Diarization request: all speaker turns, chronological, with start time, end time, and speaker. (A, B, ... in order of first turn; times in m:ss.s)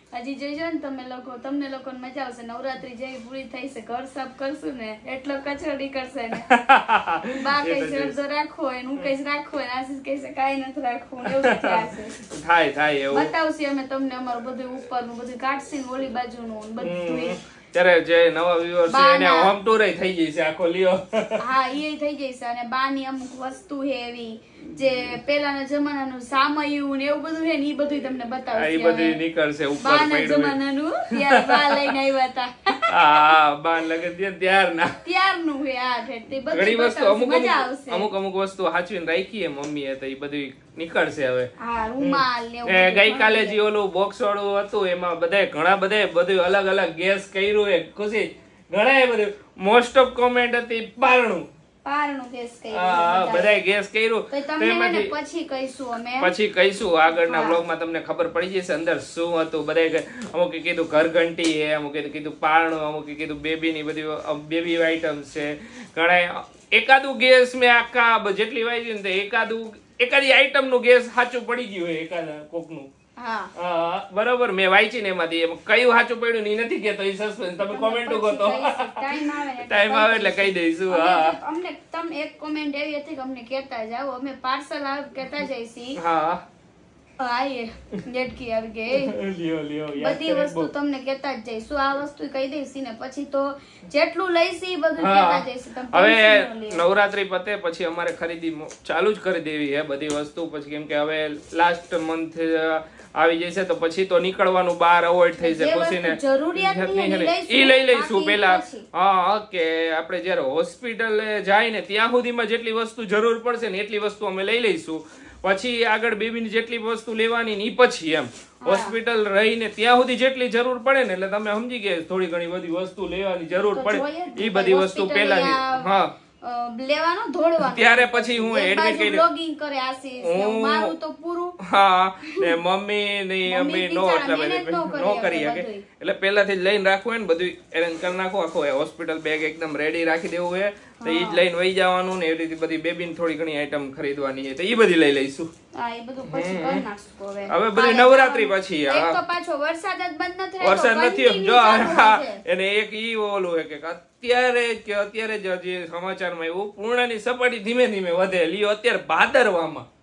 0:00.1-0:06.5 A
0:06.4-0:08.1 B
0:07.3-0:12.2 A
0:11.2-0:13.3 B
0:13.1-0:17.4 A
0:16.8-0:21.4 B
0:18.9-0:19.5 A
0:21.4-0:29.2 A
0:24.7-0:25.1 B
0:28.5-0:30.6 B
0:29.8-0:33.3 A
0:31.1-0:31.9 B
0:32.9-0:35.0 B
0:35.0-0:38.1 A
0:36.5-0:51.5 B
0:41.6-0:43.6 A
0:51.8-0:53.5 A
0:52.7-0:55.1 B
0:54.3-0:56.3 A
0:56.2-1:12.9 B
0:57.2-0:57.6 A
1:13.2-1:13.5 A
1:13.6-1:21.4 B
1:17.6-1:26.0 A
1:26.0-1:26.4 B
1:27.2-1:29.1 A
1:28.9-1:30.7 B
1:30.0-1:36.8 A
1:35.0-2:06.1 B
1:45.4-1:48.8 A
1:58.6-1:58.9 A
2:03.7-2:05.9 A
2:06.4-2:11.6 A
2:07.6-2:09.2 B
2:10.2-2:10.9 B
2:11.6-2:25.5 B
2:13.5-2:15.8 A
2:21.0-2:21.4 A
2:25.7-2:32.4 A
2:26.2-2:26.8 B
2:27.5-2:29.2 B
2:30.6-2:39.9 B